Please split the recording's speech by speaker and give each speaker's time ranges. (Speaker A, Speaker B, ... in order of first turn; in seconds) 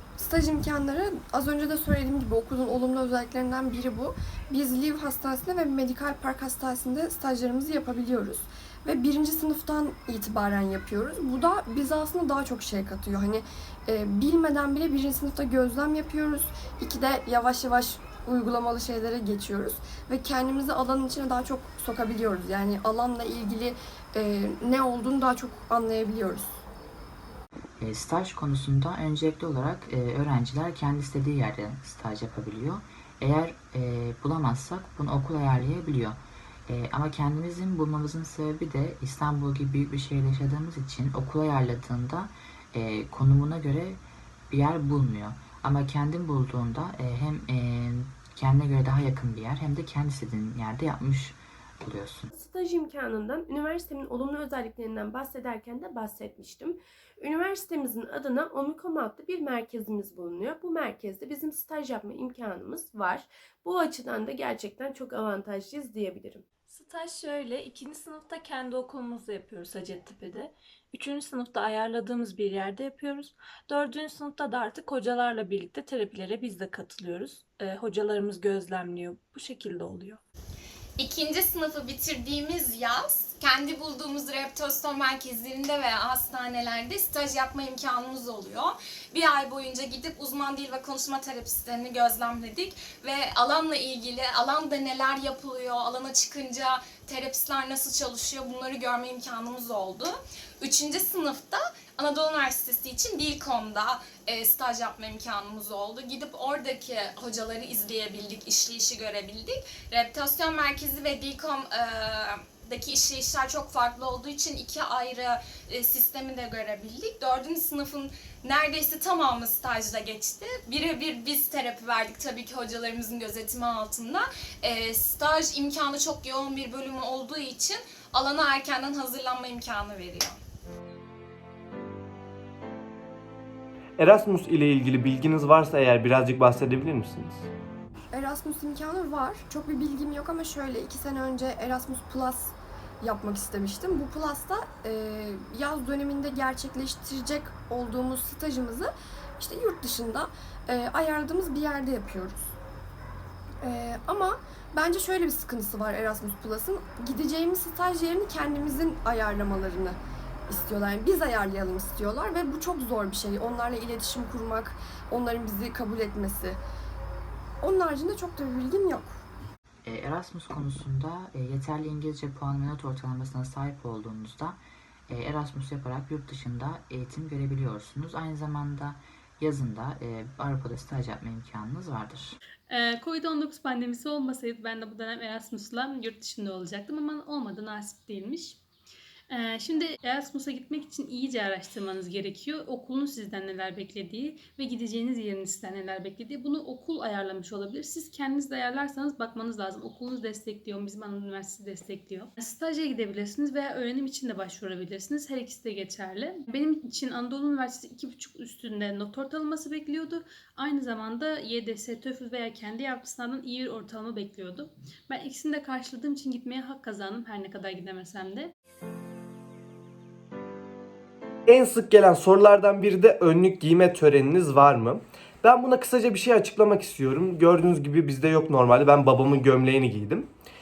Speaker A: 0.2-26.6, 138.1-152.5, 153.6-166.6, 167.6-169.2
Speaker B: 27.8-52.3, 169.8-182.4
Speaker C: 52.3-66.5
Speaker D: 66.7-80.2
Speaker E: 81.0-130.4
Speaker F: 134.0-137.5, 221.5-230.3
Speaker G: 182.7-188.6, 189.3-218.5